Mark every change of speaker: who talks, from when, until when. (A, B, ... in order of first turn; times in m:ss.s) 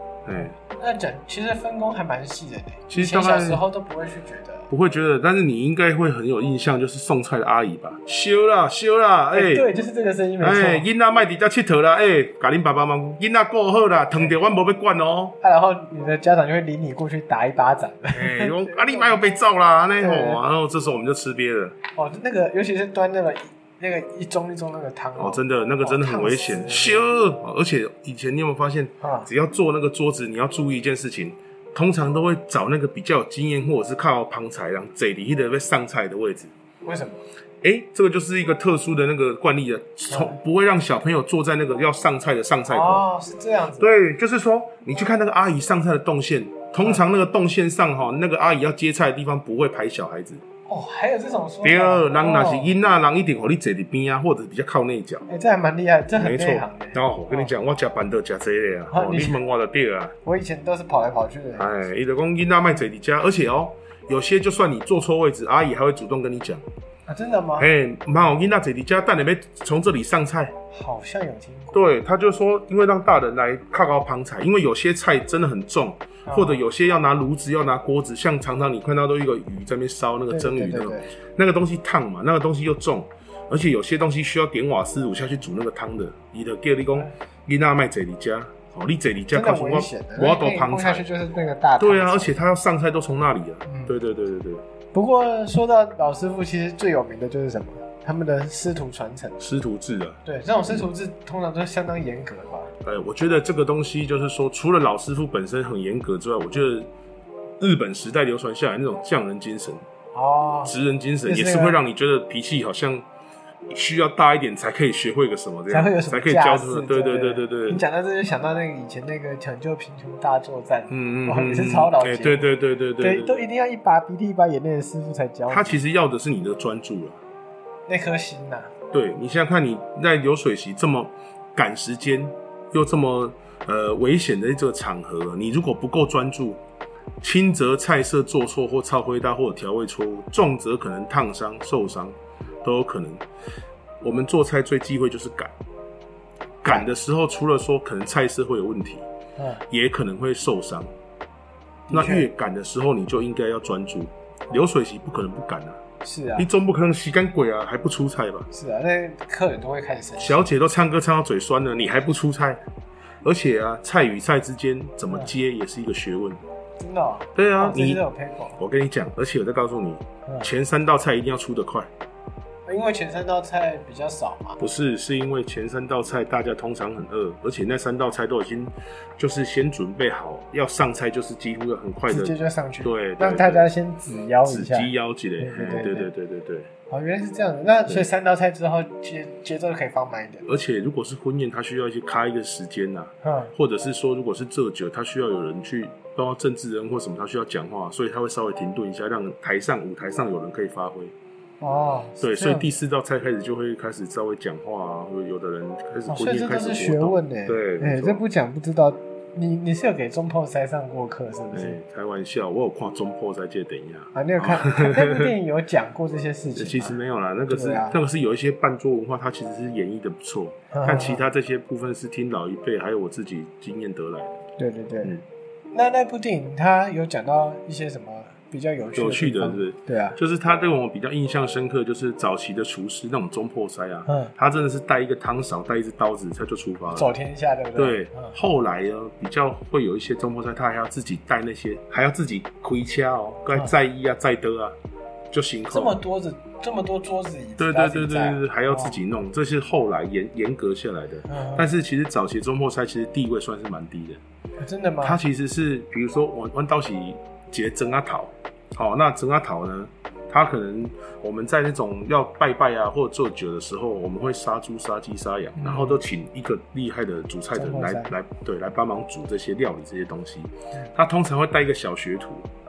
0:00.2-0:00.5 A
0:00.3-0:04.7 B
0:02.9-0:03.6 A
0:04.7-0:09.7 A
0:09.3-0:10.8 B
0:10.4-0:15.4 A
0:15.4-0:19.2 B
0:18.1-0:21.8 A
0:20.0-0:20.4 B
0:21.9-0:27.1 B
0:25.2-0:36.5 A
0:29.0-0:29.3 B
0:36.8-0:37.2 B
0:37.6-0:43.0 A
0:40.1-0:40.4 B
0:42.7-0:43.9 B
0:43.8-0:50.4 A
0:50.7-0:52.7 B
0:51.6-0:55.3 A
0:55.3-0:57.5 B
0:56.1-1:00.1 A
0:58.9-0:59.4 B
1:00.2-1:01.7 B
1:01.6-1:06.6 A
1:07.1-1:07.7 B
1:07.6-1:10.5 A
1:10.7-1:11.8 B
1:11.7-1:31.0 A
1:16.2-1:16.6 B
1:20.3-1:21.1 B
1:29.3-1:32.4 B
1:31.8-1:34.6 A
1:33.6-1:33.9 B
1:34.9-1:39.4 B
1:39.4-1:40.8 A
1:40.2-1:42.7 B
1:42.8-1:46.9 A
1:47.6-1:49.8 A
1:50.1-1:50.7 B
1:50.6-1:53.0 A
1:51.2-1:51.8 B
1:53.7-1:57.8 A
1:55.7-2:02.5 B
2:00.9-2:03.4 A
2:03.0-2:05.8 B
2:05.5-2:07.2 A
2:07.9-2:08.7 B
2:08.9-2:16.6 A
2:17.2-2:23.2 A
2:24.0-2:25.5 A
2:26.6-2:29.0 A
2:29.4-2:29.6 B
2:29.7-2:30.9 A
2:31.9-2:32.3 B
2:31.9-2:35.8 A
2:36.0-2:36.5 B
2:36.4-2:38.5 A
2:38.5-2:40.5 B
2:40.2-2:42.6 A
2:43.2-2:46.4 A
2:46.8-2:48.6 B
2:47.3-2:48.0 A
2:48.6-2:51.9 A
2:52.7-2:54.6 B
2:54.6-3:03.7 A
3:02.1-3:06.1 B
3:04.4-3:06.7 A
3:06.9-3:10.5 B
3:10.4-3:21.1 A
3:13.2-3:13.5 B
3:21.6-3:22.7 B
3:22.2-3:28.2 A
3:26.1-3:31.8 B
3:31.5-3:35.3 A
3:34.1-3:37.0 B
3:36.5-3:44.3 A
3:37.5-3:38.0 B
3:40.7-3:41.2 B
3:44.6-3:45.2 B
3:45.7-3:50.2 B
3:48.9-3:57.1 A
3:54.0-3:54.3 B
3:56.9-3:58.4 B
3:57.8-4:04.8 A
4:05.3-4:06.0 A
4:05.7-4:09.0 B
4:07.6-4:14.2 A
4:11.2-4:11.7 B
4:14.6-4:15.2 B
4:15.0-4:32.5 A
4:25.6-4:26.0 B
4:27.5-4:28.1 B